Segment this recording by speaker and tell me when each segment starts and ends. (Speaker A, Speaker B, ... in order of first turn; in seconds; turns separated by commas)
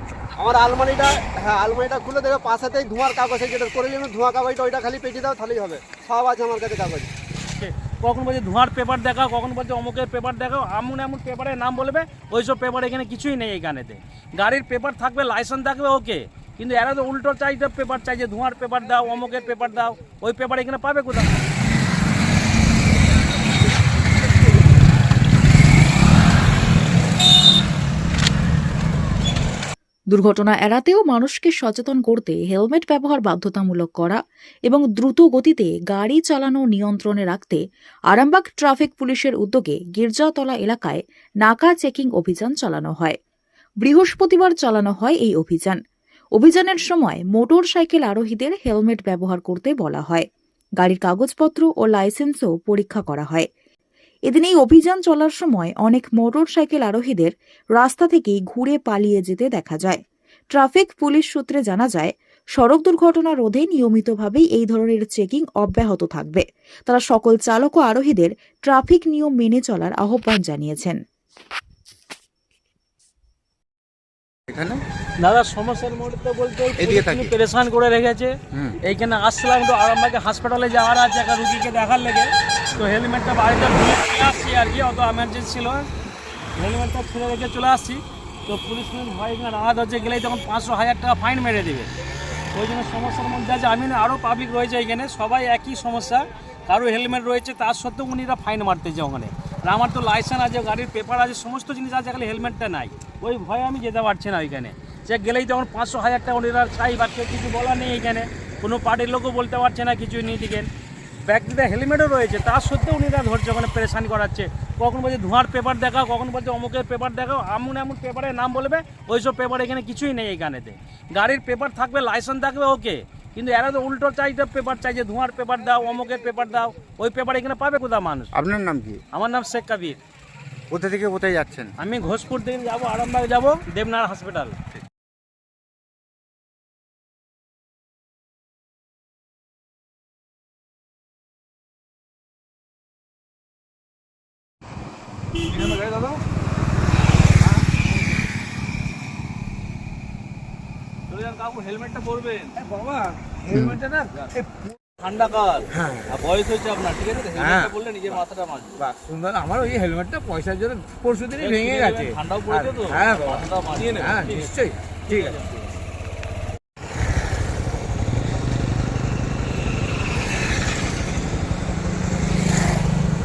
Speaker A: 0.4-7.1, Speaker B: 7.6-21.3, Speaker C: 30.1-43.2, Speaker C: 43.8-45.8, Speaker C: 46.3-50.2, Speaker C: 50.8-53.5, Speaker C: 54.3-60.0, Speaker C: 60.5-71.0, Speaker D: 74.5-74.8, Speaker B: 75.2-85.9, Speaker D: 76.8-77.3, Speaker B: 86.5-91.9, Speaker B: 92.5-110.7, Speaker B: 111.2-128.3, Speaker D: 128.3-129.0, Speaker B: 129.1-130.0, Speaker D: 130.7-131.7, Speaker B: 131.8-134.6, Speaker B: 145.5-146.1, Speaker B: 151.1-152.8, Speaker E: 153.4-154.6, Speaker B: 153.7-154.2, Speaker B: 155.0-158.8, Speaker E: 155.8-156.1, Speaker E: 157.4-157.7, Speaker E: 158.8-165.3, Speaker B: 161.4-165.7